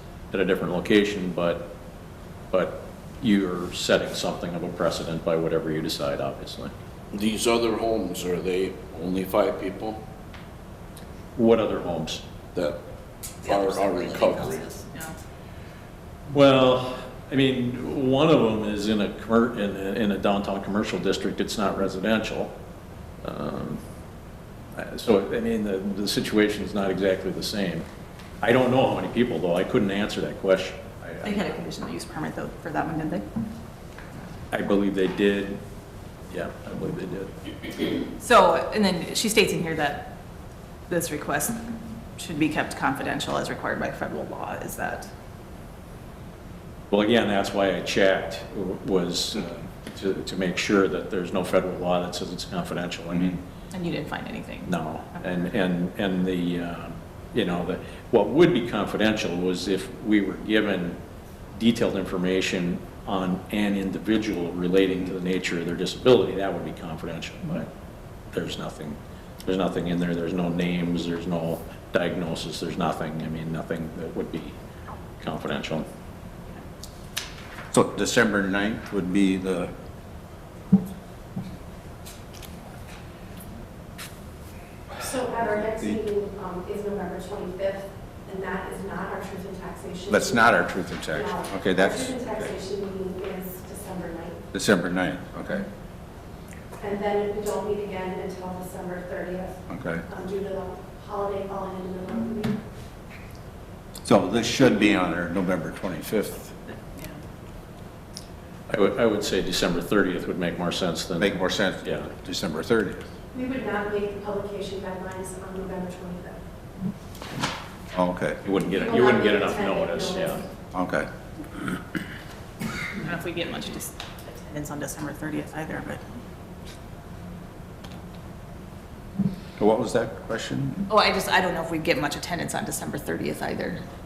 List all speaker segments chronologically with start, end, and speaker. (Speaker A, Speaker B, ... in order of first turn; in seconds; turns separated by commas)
Speaker A: 0.3-1.7, Speaker A: 2.5-6.7, Speaker B: 7.1-10.0, Speaker A: 11.4-12.2, Speaker B: 13.4-14.6, Speaker C: 13.4-15.2, Speaker A: 16.3-22.5, Speaker A: 23.2-23.8, Speaker A: 24.7-27.9, Speaker A: 28.4-31.6, Speaker C: 31.2-33.3, Speaker A: 34.5-35.6, Speaker A: 36.3-37.3, Speaker C: 38.2-40.1, Speaker C: 40.9-45.1, Speaker A: 46.9-53.4, Speaker C: 53.7-54.7, Speaker A: 54.6-61.0, Speaker A: 61.5-67.7, Speaker A: 68.3-74.6, Speaker A: 75.2-75.9, Speaker D: 77.7-79.7, Speaker E: 85.0-94.5, Speaker D: 85.7-86.0, Speaker D: 90.1-92.5, Speaker D: 94.5-95.7, Speaker E: 96.8-102.6, Speaker D: 99.7-100.0, Speaker D: 104.0-106.5, Speaker A: 108.7-112.1, Speaker D: 111.2-113.0, Speaker E: 113.3-116.4, Speaker D: 117.9-118.4, Speaker A: 118.4-120.4, Speaker E: 118.7-120.4, Speaker D: 120.7-121.1, Speaker C: 123.0-126.0, Speaker D: 129.6-130.8, Speaker C: 130.9-133.8